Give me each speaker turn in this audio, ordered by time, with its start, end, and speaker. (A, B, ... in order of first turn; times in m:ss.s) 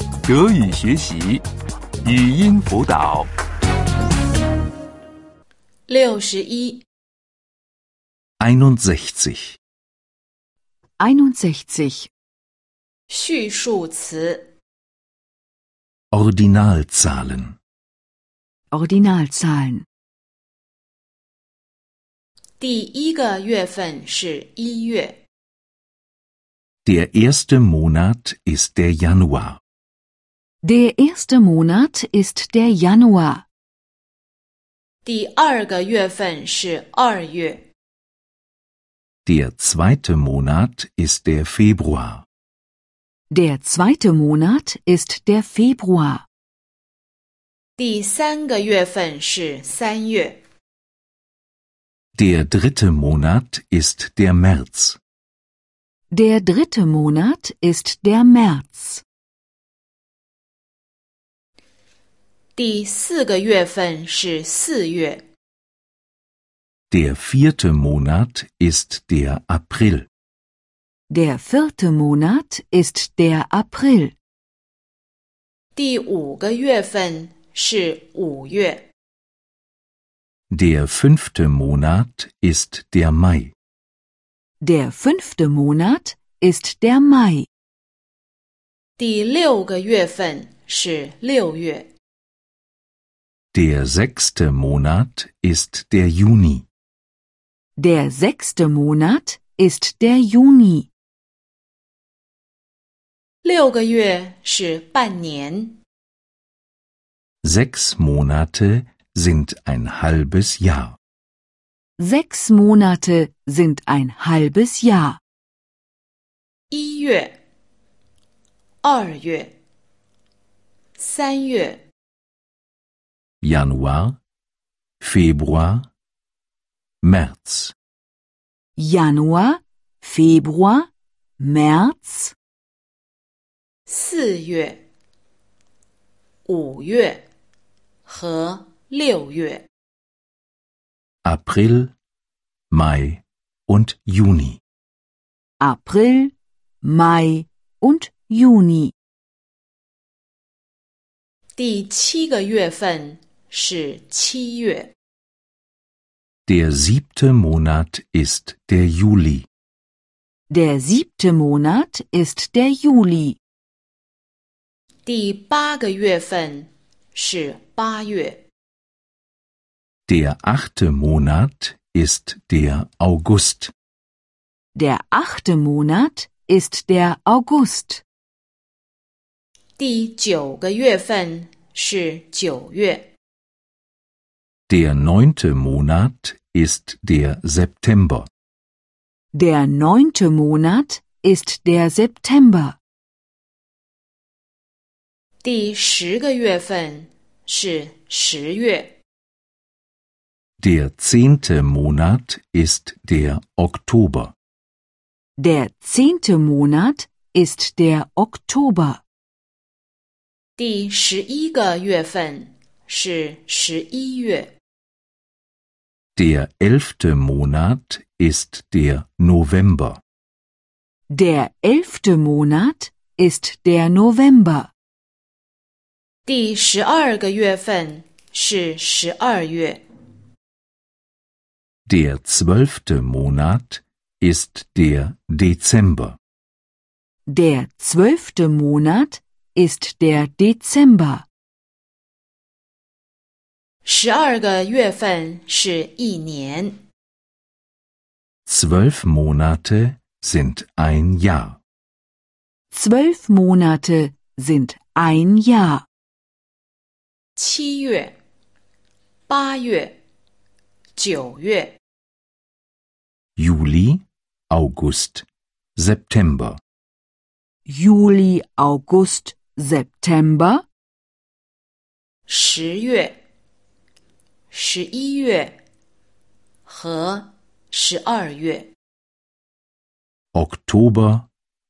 0:00.2-0:01.4 A
0:02.0-0:03.3 A
0:05.9-0:06.8 B
0:08.4-0:09.6 C
0:11.0-0:12.1 D
0:13.1-0:14.5 B
0:16.1-0:17.6 C
0:18.7-0:19.8 D
0:22.6-0:25.2 B
0:26.8-0:29.6 C
0:30.6-0:33.4 D
0:35.0-0:37.6 B
0:39.2-0:42.2 C
0:43.3-0:46.2 D
0:47.8-0:50.4 B
0:52.2-0:55.0 C
0:56.1-0:59.0 D
1:02.6-1:05.2 B
1:06.9-1:10.1 C
1:11.1-1:14.1 D
1:15.8-1:18.8 B
1:20.5-1:23.5 C
1:24.6-1:27.5 D
1:29.0-1:31.9 B
1:33.5-1:36.7 C
1:37.8-1:40.9 D
1:43.4-1:45.8 B
1:47.4-1:51.0 C
1:52.0-1:55.2 D
1:56.7-1:57.3 B
1:58.8-1:59.5 B
2:01.0-2:01.8 B
2:03.4-2:04.2 C
2:05.0-2:05.9 C
2:07.0-2:07.7 C
2:08.8-2:12.3 D
2:13.9-2:14.8 B
2:16.5-2:17.2 B
2:18.1-2:19.6 B
2:21.2-2:21.9 C
2:22.7-2:24.6 C
2:25.6-2:28.9 D
2:31.6-2:34.9 B
2:36.5-2:39.5 C
2:40.5-2:43.4 D
2:45.1-2:48.4 B
2:50.1-2:53.7 C
2:54.8-2:58.0 D
2:59.8-3:03.0 B
3:04.7-3:08.3 C
3:09.3-3:12.8 D
3:15.4-3:18.9 B
3:20.6-3:24.3 C
3:25.4-3:29.0 D
3:30.6-3:34.5 B
3:36.2-3:40.0 C
3:41.1-3:44.7 D
3:46.3-3:49.8 B
3:51.9-3:56.2 C
3:57.3-4:01.3 D
4:03.8-4:06.8 B
4:08.5-4:11.6 C
4:12.7-4:15.8 D
4:17.4-4:18.1 B
4:19.3-4:20.0 B
4:21.0-4:21.8 B
4:23.4-4:26.6 C
4:27.7-4:30.6 D
4:32.3-4:33.1 B
4:34.5-4:35.6 B
4:36.7-4:38.7 B
4:40.3-4:41.3 C